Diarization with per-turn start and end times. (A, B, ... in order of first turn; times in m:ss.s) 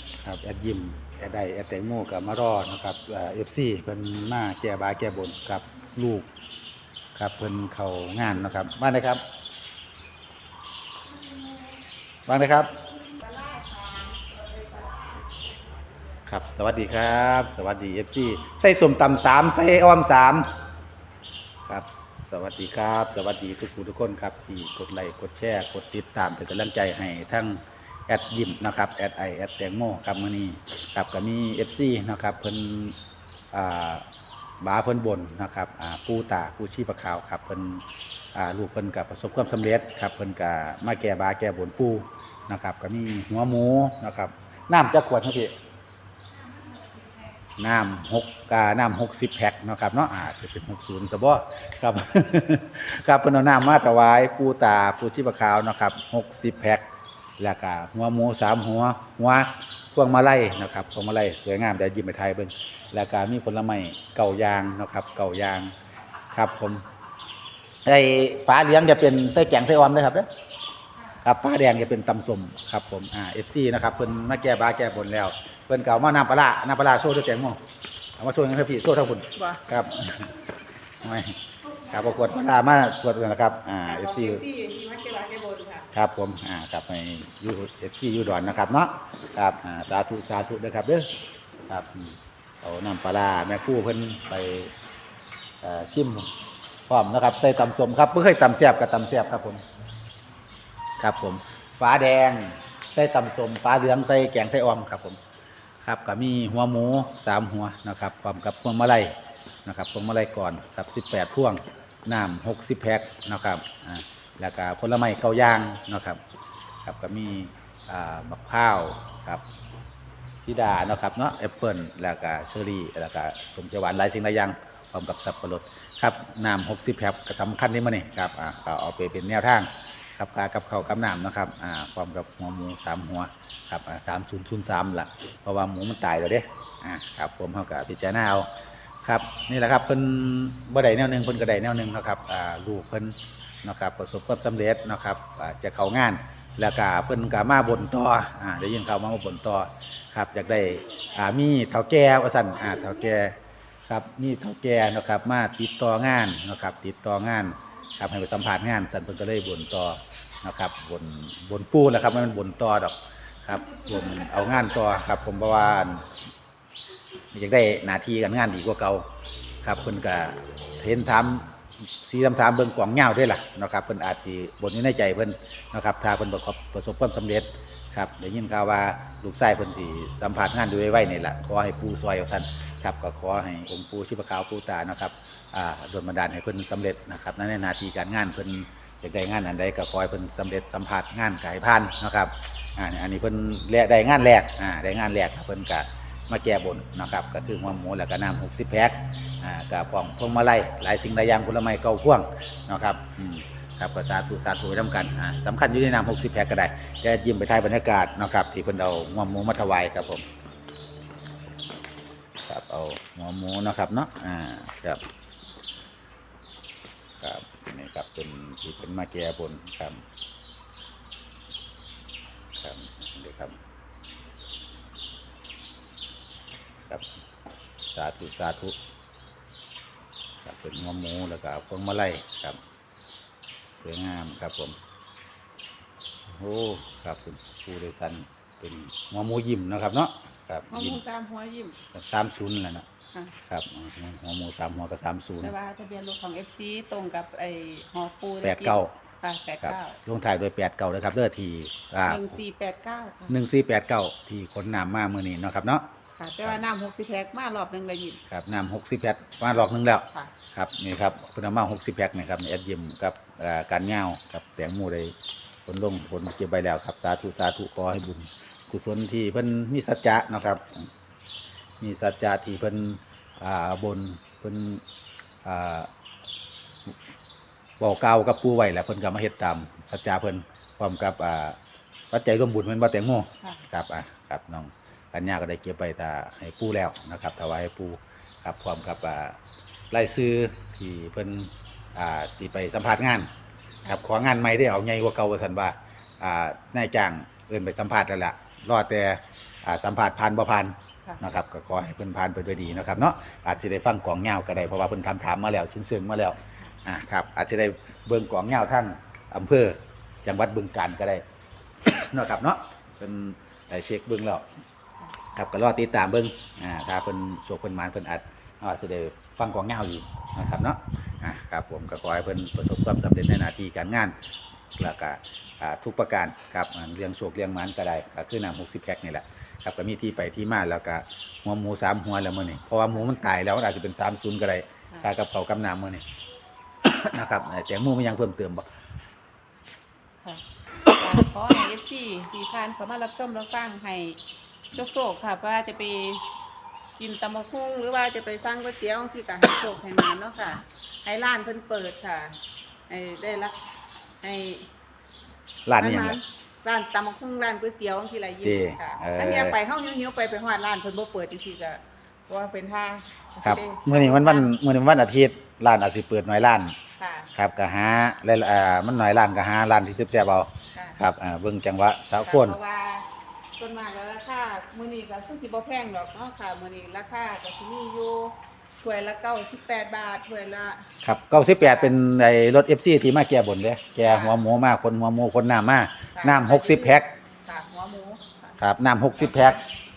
0:00.2-0:06.3 A
0:07.1-0:09.2 A
0:12.2-0:12.7 A
0:13.1-0:15.2 B
0:16.2-0:20.5 A
0:21.6-0:33.0 A
0:33.5-0:34.1 A
0:34.6-0:37.8 A
0:38.3-0:45.5 A
0:47.6-0:56.8 A
0:57.4-1:05.7 A
1:06.3-1:06.8 A
1:07.8-1:10.3 A
1:11.2-1:17.6 A
1:18.2-1:20.4 A
1:19.4-1:19.6 B
1:21.0-1:24.4 A
1:23.8-1:25.9 B
1:25.9-1:31.1 A
1:31.7-1:34.7 A
1:35.6-1:36.3 A
1:36.9-1:39.6 A
1:41.0-1:45.2 A
1:45.8-1:49.1 A
1:49.6-1:56.2 A
1:56.8-1:59.4 A
2:00.4-2:18.5 A
2:19.0-2:33.4 A
2:33.9-2:46.0 A
2:47.3-2:49.0 A
2:49.6-2:51.5 A
2:52.0-3:30.2 A
3:32.5-3:35.0 A
3:37.2-3:40.0 A
3:42.6-3:43.6 A
3:47.9-3:48.8 A
3:50.4-3:52.6 A
3:53.8-3:54.8 A
3:56.4-4:01.0 A
4:00.7-4:01.8 B
4:01.9-4:02.8 A
4:03.4-4:05.5 A
4:05.4-4:10.0 B
4:08.4-4:08.9 A
4:09.6-4:12.4 A
4:12.1-4:13.4 B
4:13.3-4:15.9 A
4:16.2-4:18.2 B
4:18.3-4:25.1 A
4:25.6-4:30.9 A
4:31.8-4:34.8 A
4:35.4-4:35.9 A
4:37.8-4:41.6 A
4:42.1-4:49.4 A
4:49.9-4:53.3 A
4:53.8-5:11.2 A
5:11.8-5:14.5 A
5:15.3-5:24.1 A
5:24.8-5:36.0 A
5:33.0-5:33.2 B
5:36.8-5:38.6 A
5:40.2-5:44.2 B
5:44.7-5:46.2 B
5:47.0-5:53.6 B
5:54.2-5:54.7 B
5:55.6-5:56.2 A
5:55.8-6:04.5 B
5:58.4-5:59.6 A
6:03.4-6:06.8 A
6:07.0-6:07.3 B
6:07.3-6:12.6 A
6:12.2-6:13.0 B
6:13.6-6:22.0 B
6:21.0-6:27.1 A
6:24.0-6:24.4 B
6:26.1-6:28.6 B
6:28.6-6:29.6 A
6:29.2-6:29.6 B